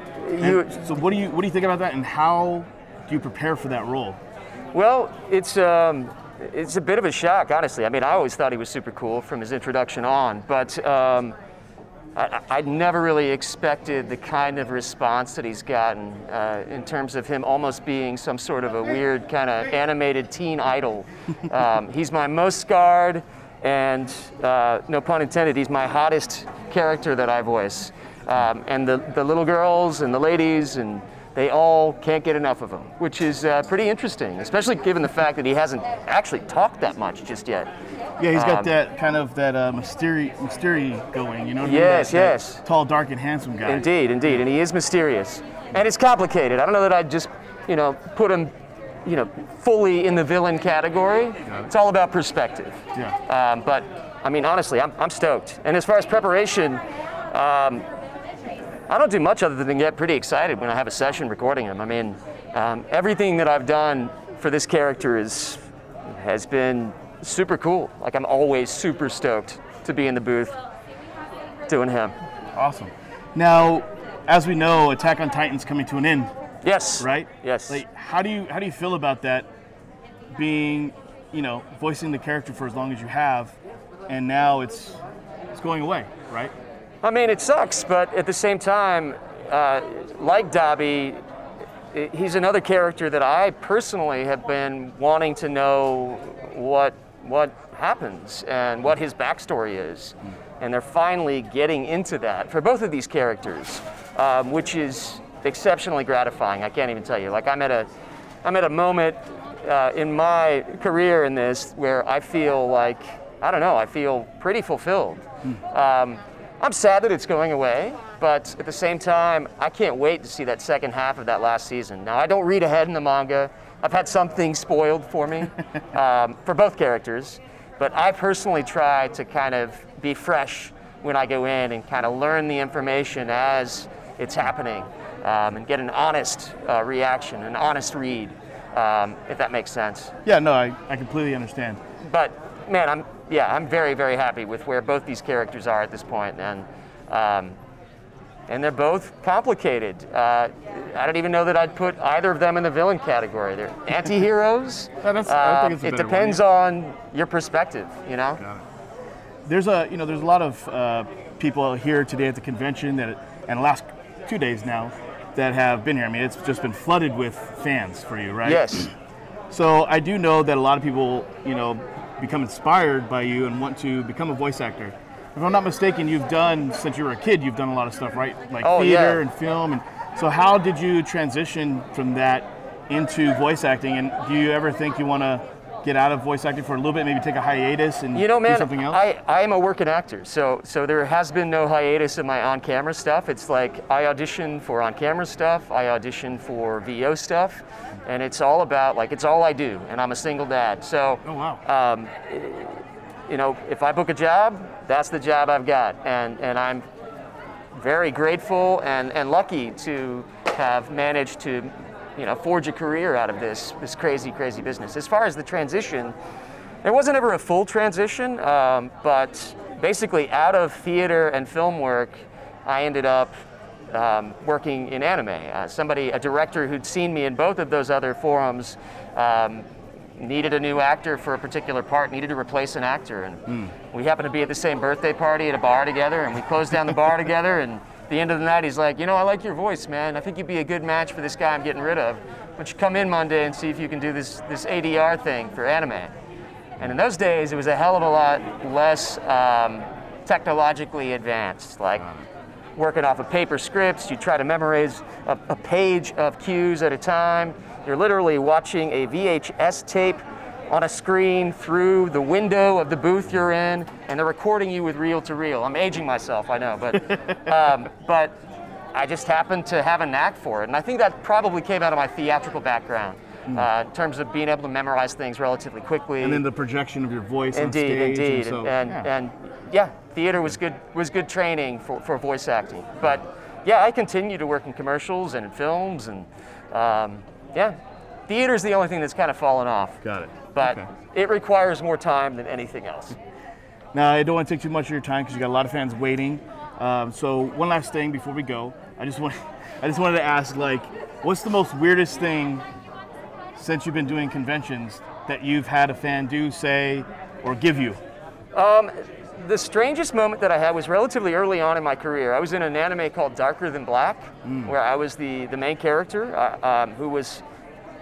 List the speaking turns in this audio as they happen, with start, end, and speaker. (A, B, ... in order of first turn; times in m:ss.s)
0:00.2-0:00.8 A
0:00.4-0:04.2 B
0:04.7-0:11.4 A
0:12.2-0:37.7 A
0:38.2-0:44.4 B
0:38.3-0:38.7 A
0:41.6-0:42.6 A
0:43.6-0:48.5 A
0:49.0-0:57.9 A
0:51.5-0:51.7 B
0:58.9-1:10.6 A
1:11.7-1:12.2 A
1:12.6-1:16.3 B
1:16.6-1:17.8 A
1:17.0-1:19.5 B
1:20.3-1:23.6 B
1:24.1-1:25.0 B
1:25.5-1:26.5 B
1:27.0-1:31.2 A
1:31.9-1:47.9 A
1:48.4-2:20.1 A
2:20.2-2:21.8 B
2:22.0-2:27.6 A
2:28.5-2:38.4 A
2:35.0-2:36.4 B
2:39.5-2:48.9 B
2:48.4-2:48.9 A
2:49.5-3:09.0 B
2:58.6-2:59.2 A
3:08.1-3:26.8 A
3:21.3-3:21.6 B
3:27.7-3:36.2 A
3:36.8-3:43.3 A
3:43.9-4:06.1 A
4:06.8-4:12.1 A
4:12.8-4:28.4 A
4:28.9-4:36.4 A
4:36.2-4:39.1 B
4:37.5-4:47.8 A
4:48.3-4:50.0 A
4:50.0-4:50.9 B
4:50.5-4:53.2 A
4:53.9-5:02.6 B
5:03.6-5:08.0 B
5:08.5-5:17.4 A
5:14.4-5:14.8 B